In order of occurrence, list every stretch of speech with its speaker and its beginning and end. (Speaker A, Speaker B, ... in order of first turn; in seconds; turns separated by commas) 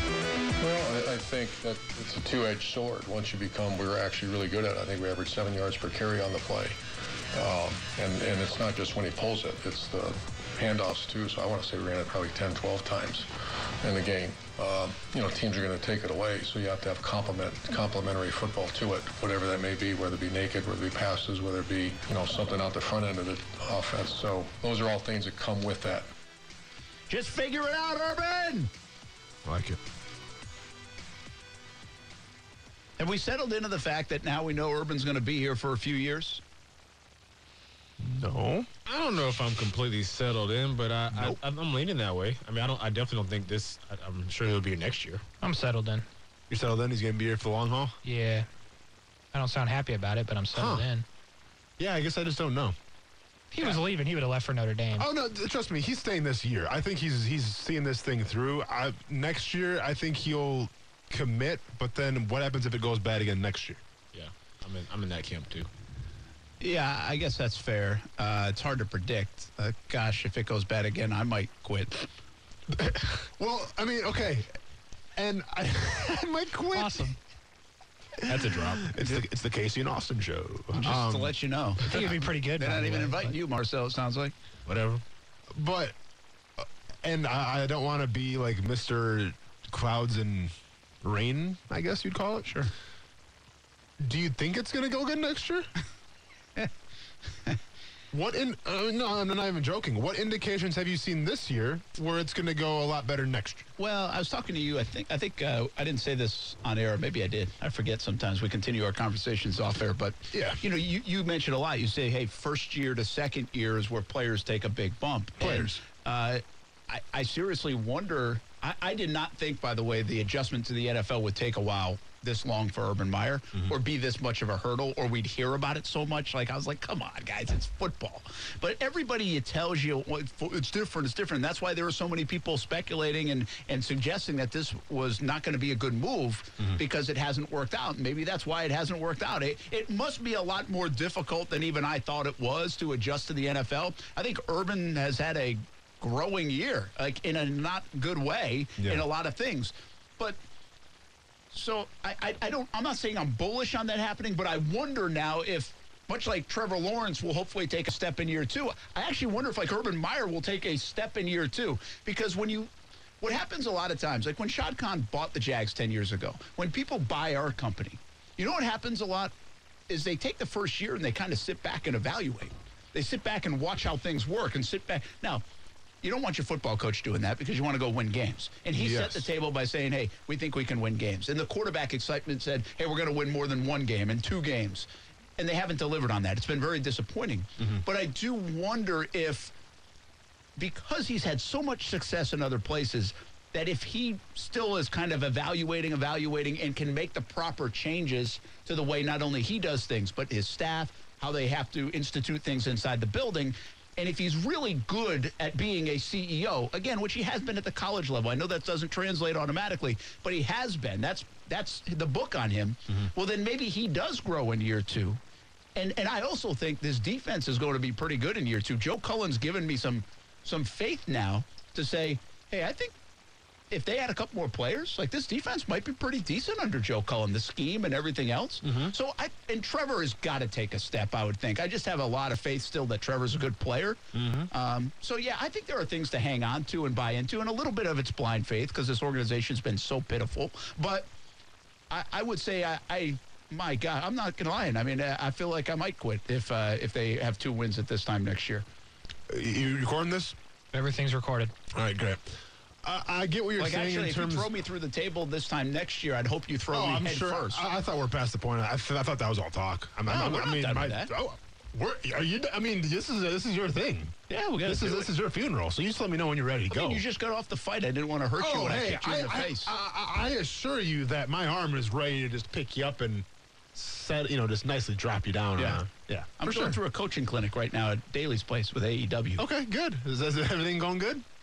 Speaker A: 0.6-6.8, Speaker A: 7.3-13.3, Speaker A: 13.8-26.1, Speaker B: 27.1-28.7, Speaker C: 29.4-29.8, Speaker B: 33.0-36.4, Speaker C: 38.0-38.7, Speaker D: 38.9-45.2, Speaker E: 45.4-46.0, Speaker C: 46.5-48.0, Speaker E: 48.0-48.5, Speaker E: 49.3-51.0, Speaker C: 50.5-50.9, Speaker C: 51.8-52.8, Speaker E: 53.5-55.1, Speaker C: 55.0-63.8, Speaker D: 64.1-65.7, Speaker B: 66.6-72.1, Speaker C: 72.7-74.5, Speaker C: 75.2-77.1, Speaker E: 76.7-77.2, Speaker C: 78.2-82.0, Speaker D: 78.2-78.9, Speaker B: 80.7-84.3, Speaker E: 81.9-83.3, Speaker D: 84.7-85.0, Speaker C: 85.5-85.9, Speaker C: 86.6-92.6, Speaker C: 94.0-95.7, Speaker C: 98.1-103.7, Speaker B: 103.8-150.4, Speaker C: 110.3-110.6, Speaker C: 115.4-115.8, Speaker B: 151.5-162.7, Speaker B: 163.2-169.3, Speaker B: 169.9-175.4, Speaker B: 176.0-184.9, Speaker C: 178.7-179.3, Speaker B: 185.4-189.5, Speaker B: 190.6-215.2, Speaker B: 215.8-222.9, Speaker B: 223.7-241.1, Speaker C: 228.6-228.9, Speaker C: 234.1-234.5, Speaker B: 241.9-248.6, Speaker C: 249.3-250.3, Speaker E: 250.7-251.5, Speaker C: 251.7-254.5, Speaker B: 253.6-257.6, Speaker C: 256.7-267.0, Speaker B: 260.1-261.1, Speaker B: 264.3-265.1, Speaker B: 266.7-269.7, Speaker C: 268.4-276.8, Speaker B: 275.6-279.4, Speaker C: 279.4-281.2